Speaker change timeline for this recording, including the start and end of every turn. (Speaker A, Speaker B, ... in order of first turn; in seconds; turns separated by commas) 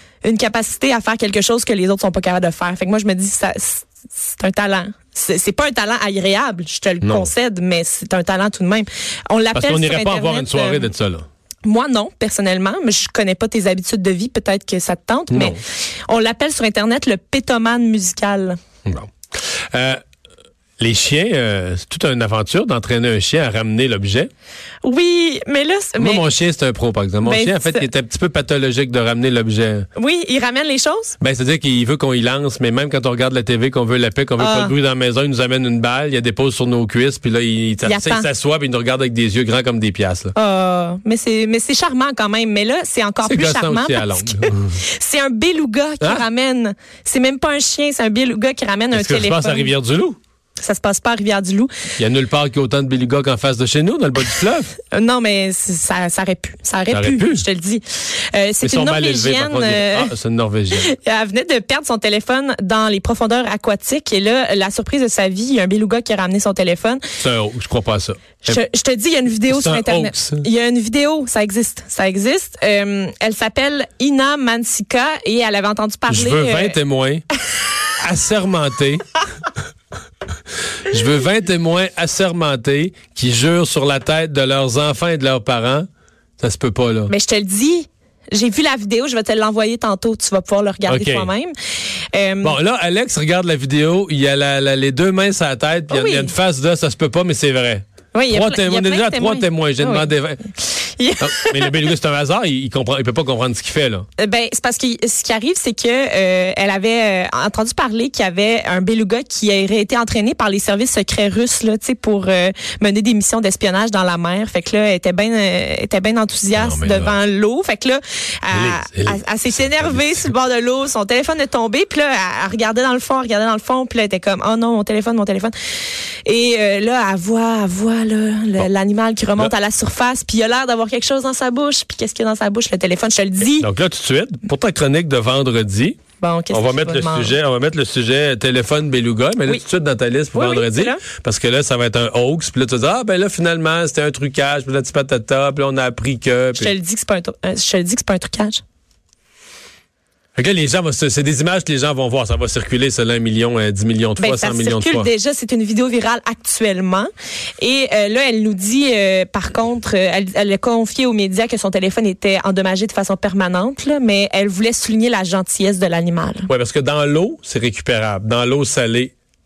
Speaker A: 0.2-10.9, Speaker B: 7.0-7.3, Speaker B: 9.5-11.2, Speaker A: 11.6-18.6, Speaker B: 15.3-15.6, Speaker B: 19.7-20.0, Speaker B: 20.8-24.3, Speaker A: 24.8-26.2, Speaker B: 26.0-29.9, Speaker A: 27.2-27.9, Speaker A: 29.9-31.1, Speaker B: 31.2-40.3, Speaker A: 34.4-34.7, Speaker A: 37.8-38.2, Speaker A: 40.3-49.7, Speaker B: 43.2-44.8, Speaker B: 48.9-50.2, Speaker A: 50.6-51.7, Speaker B: 52.0-54.7, Speaker A: 54.9-60.1, Speaker B: 56.9-57.4, Speaker B: 58.6-60.9, Speaker A: 60.7-67.0, Speaker B: 67.2-68.6, Speaker A: 68.5-76.8, Speaker B: 69.5-70.5, Speaker B: 76.1-77.2, Speaker B: 78.0-79.1, Speaker B: 80.8-85.9, Speaker B: 86.4-87.1, Speaker A: 87.1-91.5, Speaker B: 90.8-91.3, Speaker A: 92.1-92.5, Speaker B: 92.4-100.5, Speaker A: 95.9-96.3, Speaker A: 98.1-101.8, Speaker B: 101.2-104.0, Speaker A: 104.2-125.5, Speaker B: 116.5-117.2, Speaker B: 118.5-120.3, Speaker A: 126.2-133.7, Speaker B: 133.4-136.0, Speaker A: 136.2-137.3, Speaker B: 136.5-146.7, Speaker A: 140.3-141.0, Speaker A: 146.5-148.6, Speaker B: 150.3-155.1, Speaker A: 154.2-166.5, Speaker B: 166.5-169.1